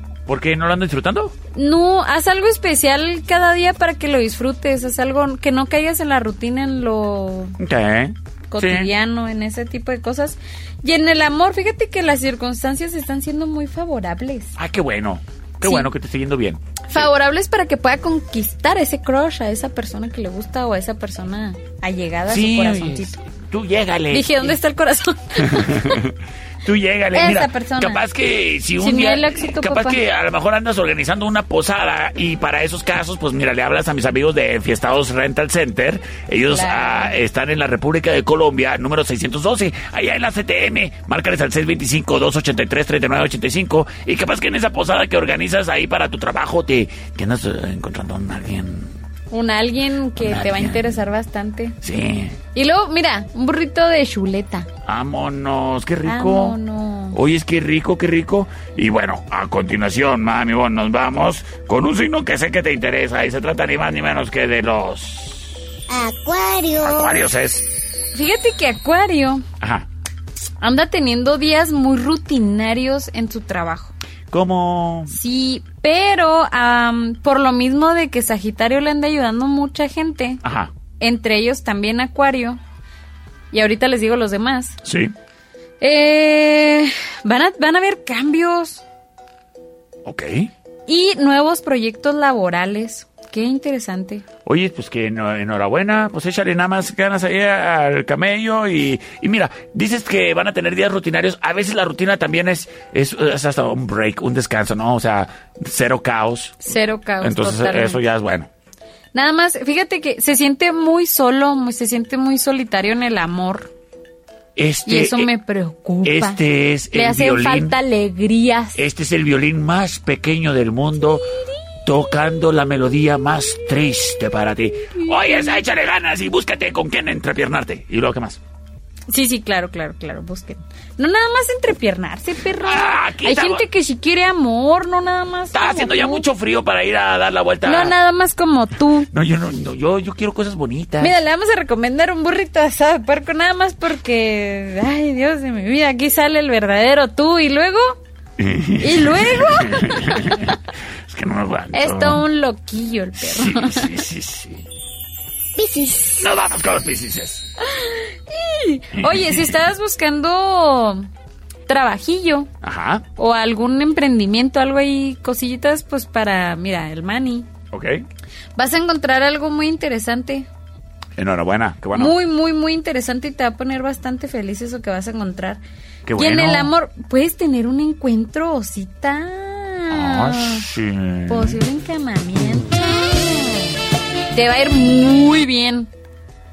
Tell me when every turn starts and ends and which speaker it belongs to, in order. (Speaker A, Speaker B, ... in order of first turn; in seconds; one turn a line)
Speaker A: 0.3-1.4
Speaker B: 1.5-7.6
Speaker A: 7.6-8.9
Speaker B: 8.5-14.6
Speaker A: 14.6-17.1
Speaker B: 15.6-15.9
Speaker B: 16.9-23.2
Speaker A: 22.3-24.6
Speaker B: 24.1-26.1
Speaker A: 25.4-49.0
Speaker B: 27.1-28.0
Speaker B: 28.8-30.0
Speaker B: 36.5-37.2
Speaker B: 49.3-51.8
Speaker A: 50.2-51.0
Speaker A: 51.8-52.4
Speaker B: 52.5-54.7
Speaker A: 54.9-56.6
Speaker B: 56.1-57.2
Speaker A: 57.1-65.7
Speaker C: 65.9-67.2
Speaker A: 66.8-67.7
Speaker B: 68.1-69.5
Speaker A: 69.6-69.9
Speaker B: 70.6-73.9
Speaker A: 74.3-75.2
Speaker B: 75.1-80.4
Speaker A: 80.4-80.7
Speaker B: 81.0-82.6
Speaker B: 83.5-84.8
Speaker A: 84.8-85.1
Speaker B: 85.8-88.8
Speaker A: 90.0-90.5
Speaker B: 90.9-94.2
Speaker A: 94.5-106.7
Speaker B: 106.6-108.0
Speaker A: 107.2-108.5
Speaker B: 109.1-113.7
Speaker A: 114.6-115.3
Speaker B: 114.9-116.4
Speaker A: 116.0-117.8
Speaker B: 116.9-118.8
Speaker A: 118.8-121.3
Speaker A: 121.8-128.4
Speaker B: 129.1-136.2
Speaker A: 132.6-133.7
Speaker A: 135.5-137.9
Speaker B: 137.7-139.1
Speaker A: 139.1-141.2
Speaker B: 141.0-148.0
Speaker A: 148.4-152.3
Speaker B: 148.8-150.5
Speaker B: 151.7-154.0
Speaker A: 153.2-154.7
Speaker C: 155.6-156.3
Speaker A: 156.2-157.5
Speaker B: 157.6-161.1
Speaker A: 159.0-159.6
Speaker B: 161.7-162.5
Speaker A: 162.6-163.1
Speaker B: 163.2-167.5
Speaker A: 167.7-168.0
Speaker B: 168.6-170.5
Speaker A: 171.2-172.2
Speaker B: 171.9-175.6
Speaker A: 176.1-176.7
Speaker B: 176.2-180.7
Speaker A: 179.9-181.6
Speaker B: 181.3-183.7
Speaker B: 184.3-185.9